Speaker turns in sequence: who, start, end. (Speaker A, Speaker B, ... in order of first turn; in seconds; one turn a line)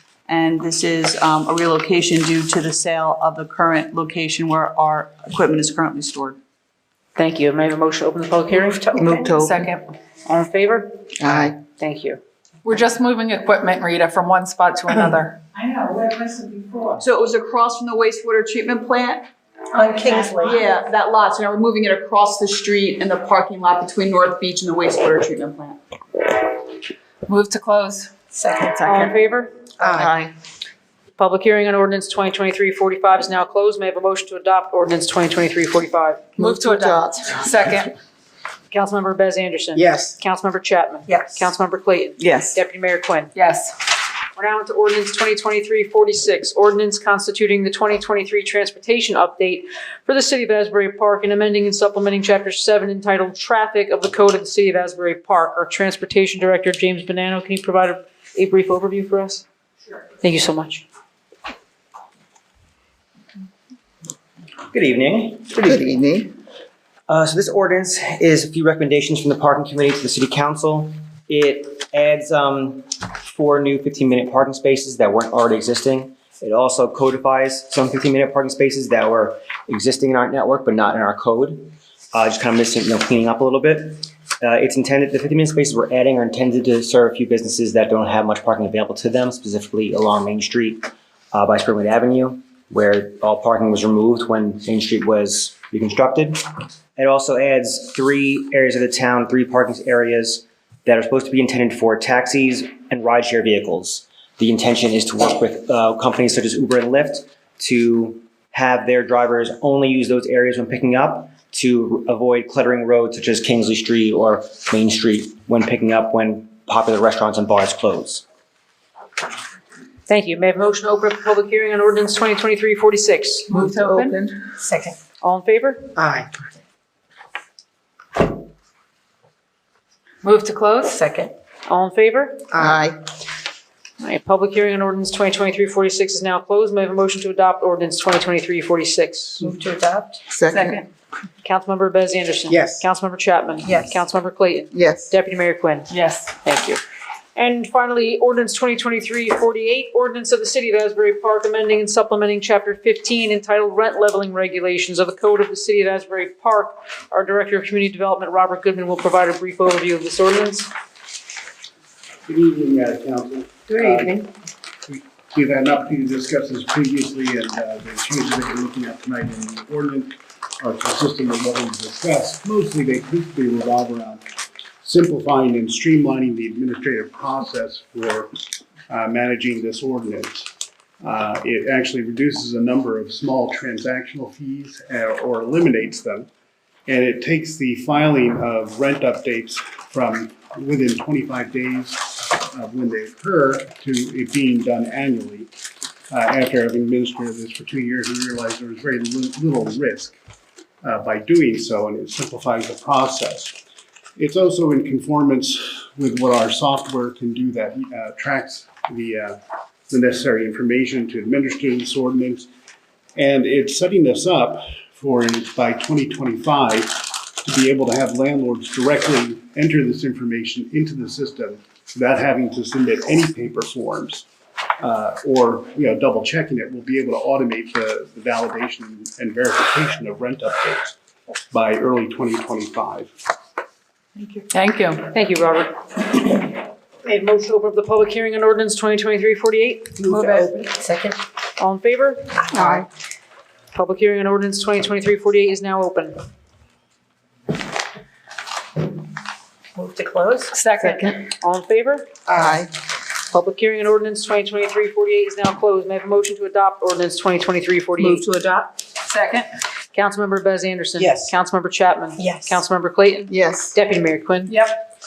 Speaker A: 0.3-6.4
Speaker B: 7.2-9.1
Speaker C: 8.9-9.6
Speaker D: 9.0-9.8
Speaker B: 10.2-11.0
Speaker C: 11.2-11.6
Speaker B: 11.6-12.2
Speaker D: 12.6-16.8
Speaker A: 17.0-19.3
Speaker E: 19.7-20.6
Speaker A: 20.3-25.8
Speaker D: 27.2-29.1
Speaker E: 28.3-28.9
Speaker B: 28.8-29.5
Speaker E: 29.8-30.1
Speaker C: 29.8-30.3
Speaker B: 31.2-37.0
Speaker C: 36.4-37.2
Speaker D: 37.2-37.9
Speaker B: 38.7-43.3
Speaker C: 39.8-40.1
Speaker E: 41.1-41.4
Speaker A: 42.2-42.6
Speaker D: 43.3-43.7
Speaker B: 44.4-59.4
Speaker B: 60.2-60.8
Speaker F: 64.7-65.9
Speaker C: 65.6-66.3
Speaker F: 67.1-96.4
Speaker F: 97.0-118.2
Speaker B: 120.1-123.6
Speaker A: 123.5-124.3
Speaker E: 124.6-124.9
Speaker B: 125.2-125.9
Speaker C: 126.0-126.3
Speaker D: 130.2-131.0
Speaker E: 130.8-131.3
Speaker B: 131.7-132.5
Speaker C: 132.5-133.0
Speaker B: 134.0-139.5
Speaker E: 139.4-140.2
Speaker C: 140.3-140.7
Speaker D: 140.5-140.8
Speaker B: 141.4-146.8
Speaker C: 142.5-142.8
Speaker E: 143.6-143.9
Speaker C: 144.7-145.1
Speaker D: 145.9-146.3
Speaker B: 147.3-160.7
Speaker G: 162.2-164.3
Speaker E: 163.8-164.1
Speaker G: 164.9-174.2
Speaker G: 174.8-178.3
Speaker G: 178.9-186.3
Speaker G: 186.9-195.5
Speaker G: 196.1-200.2
Speaker G: 200.8-203.6
Speaker G: 204.2-212.5
Speaker G: 213.1-224.3
Speaker G: 224.8-230.9
Speaker G: 231.5-233.1
Speaker A: 234.2-235.0
Speaker B: 235.1-235.8
Speaker B: 237.0-240.3
Speaker E: 240.0-241.2
Speaker B: 241.6-242.7
Speaker E: 242.4-242.7
Speaker C: 242.6-242.8
Speaker B: 243.7-246.2
Speaker E: 249.8-250.5
Speaker D: 250.5-251.1
Speaker B: 251.3-252.1
Speaker C: 252.3-252.7
Speaker B: 253.3-258.3
Speaker D: 259.0-259.5
Speaker B: 259.9-264.6
Speaker E: 262.2-262.6
Speaker C: 263.3-263.7
Speaker D: 264.5-264.7